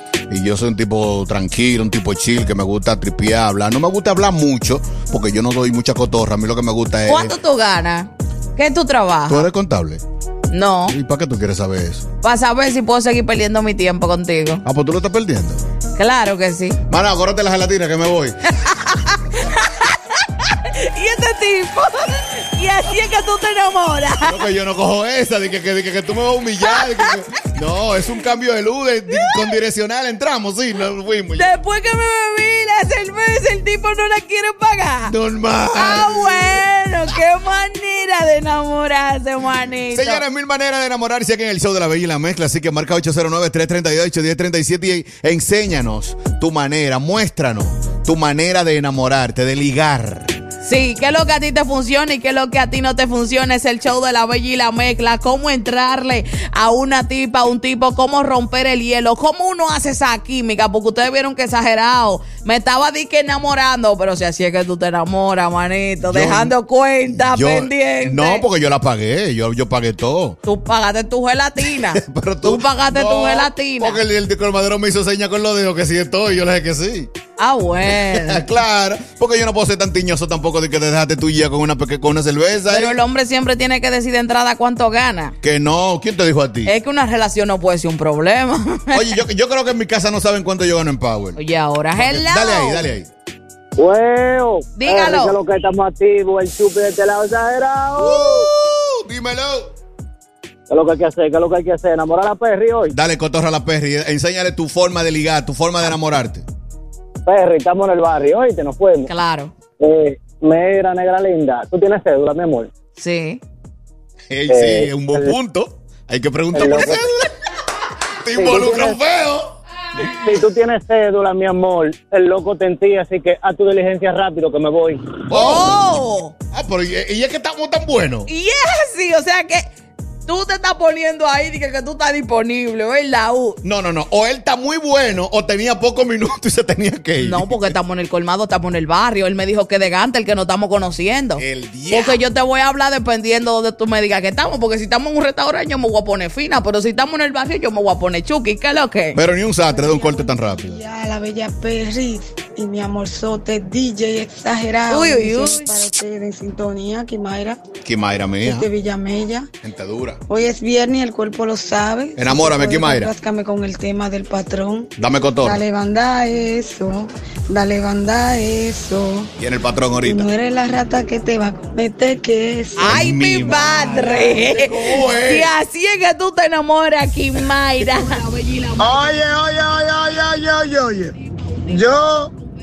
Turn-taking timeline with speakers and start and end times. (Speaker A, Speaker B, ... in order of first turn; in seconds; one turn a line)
Speaker A: 0.3-7.4
Speaker B: 7.0-9.5
Speaker A: 9.3-10.0
Speaker B: 10.5-10.9
Speaker A: 10.9-12.0
Speaker B: 12.2-14.6
Speaker A: 14.6-15.6
Speaker B: 16.0-16.8
Speaker A: 16.9-18.4
Speaker B: 18.6-19.9
Speaker B: 20.4-24.4
Speaker A: 24.2-31.5
Speaker B: 26.6-27.1
Speaker B: 29.1-29.5
Speaker B: 31.4-35.1
Speaker A: 35.0-36.6
Speaker B: 35.7-40.2
Speaker A: 39.9-50.4
Speaker B: 50.6-68.4
Speaker A: 66.1-70.4
Speaker B: 70.5-74.0
Speaker A: 71.8-77.1
Speaker B: 77.4-78.4
Speaker A: 77.9-83.0
Speaker B: 82.7-85.3
Speaker A: 85.4-86.7
Speaker B: 86.6-89.1
Speaker A: 88.9-91.4
Speaker B: 91.3-92.9
Speaker A: 92.0-93.1
Speaker C: 93.8-98.5
Speaker B: 94.8-95.4
Speaker A: 97.9-99.7
Speaker C: 100.7-102.9
Speaker A: 102.9-106.4
Speaker C: 107.2-109.1
Speaker B: 109.1-109.5
Speaker C: 109.8-112.7
Speaker B: 113.0-113.4
Speaker A: 114.3-117.3
Speaker C: 114.5-115.4
Speaker C: 116.5-117.0
Speaker A: 118.2-119.5
Speaker C: 118.3-119.0
Speaker C: 120.0-125.1
Speaker A: 125.3-125.8
Speaker B: 125.3-126.3
Speaker A: 126.5-128.3
Speaker B: 128.3-129.7
Speaker B: 130.2-133.6
Speaker A: 133.6-137.7
Speaker B: 137.2-149.2
Speaker A: 141.3-142.2
Speaker A: 149.1-150.8
Speaker D: 149.7-157.6
Speaker B: 154.9-155.8
Speaker A: 157.8-158.7
Speaker D: 158.5-159.5
Speaker A: 159.6-160.2
Speaker D: 160.3-164.9
Speaker A: 162.2-163.1
Speaker A: 165.0-165.6
Speaker D: 165.4-169.3
Speaker A: 169.4-170.3
Speaker D: 170.0-172.9
Speaker B: 172.8-178.2
Speaker A: 172.8-175.5
Speaker E: 178.8-181.1
Speaker E: 181.7-182.3